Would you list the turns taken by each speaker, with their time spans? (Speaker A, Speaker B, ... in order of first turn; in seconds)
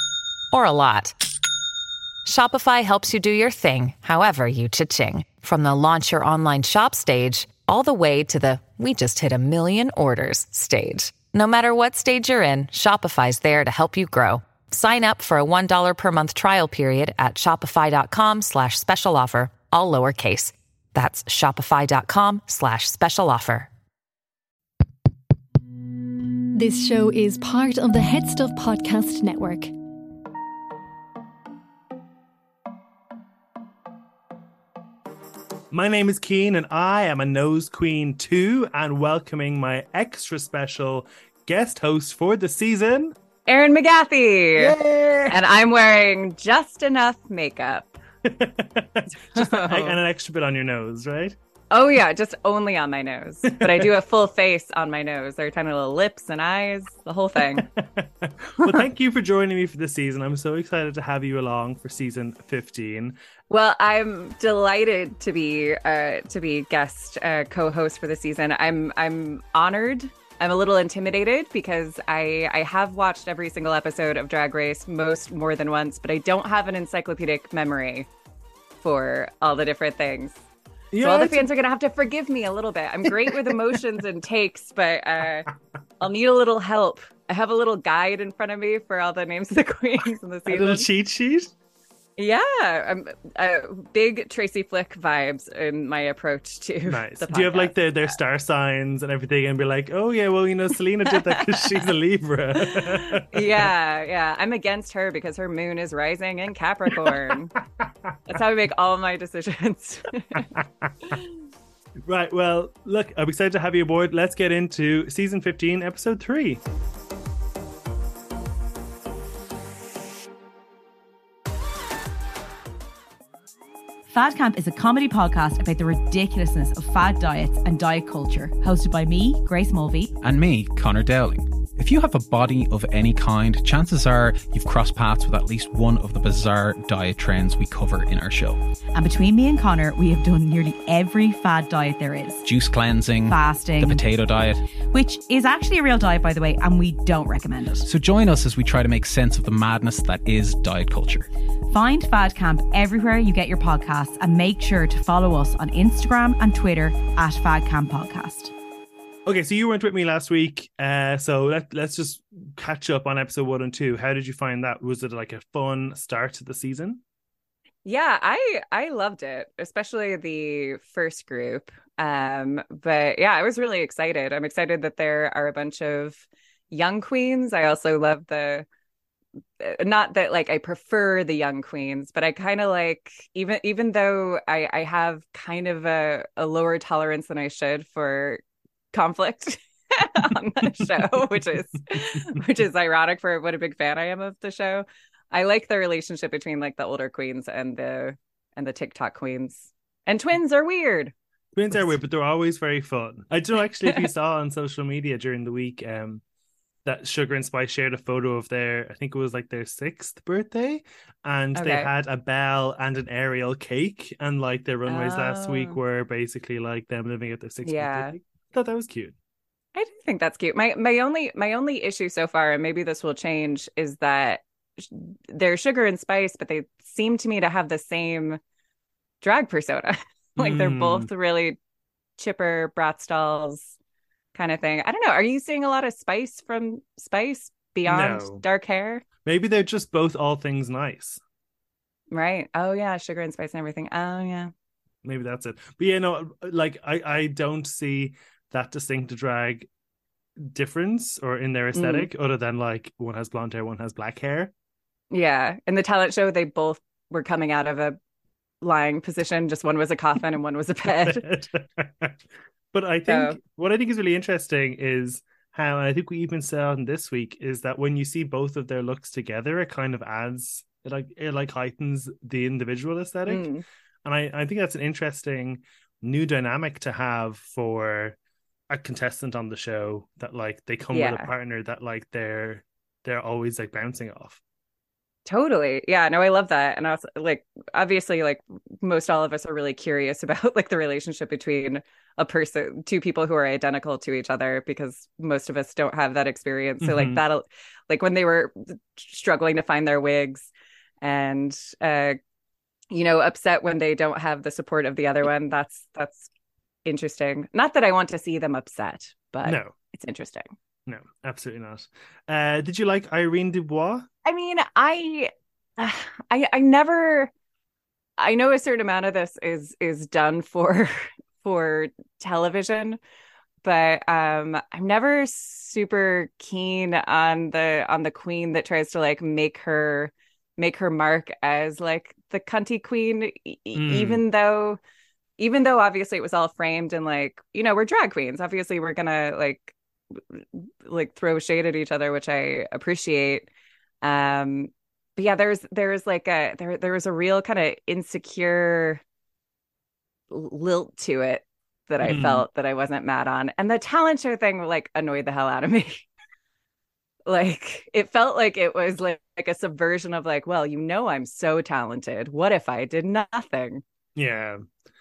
Speaker A: 0.5-1.2, 2.2-23.7
Speaker B: 26.5-29.7
Speaker C: 35.7-43.1, 44.6-45.4, 48.2-51.4, 53.5-54.0, 57.4-63.2, 80.9-81.5, 83.2-83.8, 90.5-91.5, 96.9-103.7, 106.9-108.2, 110.3-111.1, 112.0-116.6, 159.3-167.0, 191.9-192.4, 201.6-206.2, 206.8-219.2, 230.4-231.1, 237.9-238.4, 239.2-241.2, 245.0-249.7, 250.4-254.5, 261.0-273.5, 274.1-278.2, 278.7-284.4, 296.8-297.2, 309.4-309.8, 310.9-314.1, 333.7-334.2, 352.0-352.5, 364.2-364.6
Speaker D: 43.5-44.8, 45.3-48.0, 49.2-50.0, 51.7-57.7, 63.5-78.1, 78.8-80.4, 81.0-90.9, 92.2-97.8, 101.1-101.8, 102.6-107.5, 108.3-110.5, 167.8-178.7, 179.6-188.4, 188.9-201.1, 211.6-211.9, 214.9-215.8, 217.6-218.2, 219.8-228.4, 229.2-231.6, 232.2-233.8, 234.3-239.0, 242.1-244.5, 251.7-252.1, 255.1-258.0, 258.6-261.2, 263.1-263.4, 273.3-273.6, 280.9-281.3, 285.3-300.5, 301.0-302.2, 302.9-306.3, 306.9-310.5, 314.2-317.3, 318.2-323.0, 323.6-334.8, 335.4-343.5, 344.0-349.0, 350.3-356.1, 357.3-363.8
Speaker E: 124.1-130.1, 138.9-142.5, 143.2-144.1, 144.9-147.9, 151.7-158.5
Speaker F: 130.2-138.6, 142.4-144.7, 147.9-151.3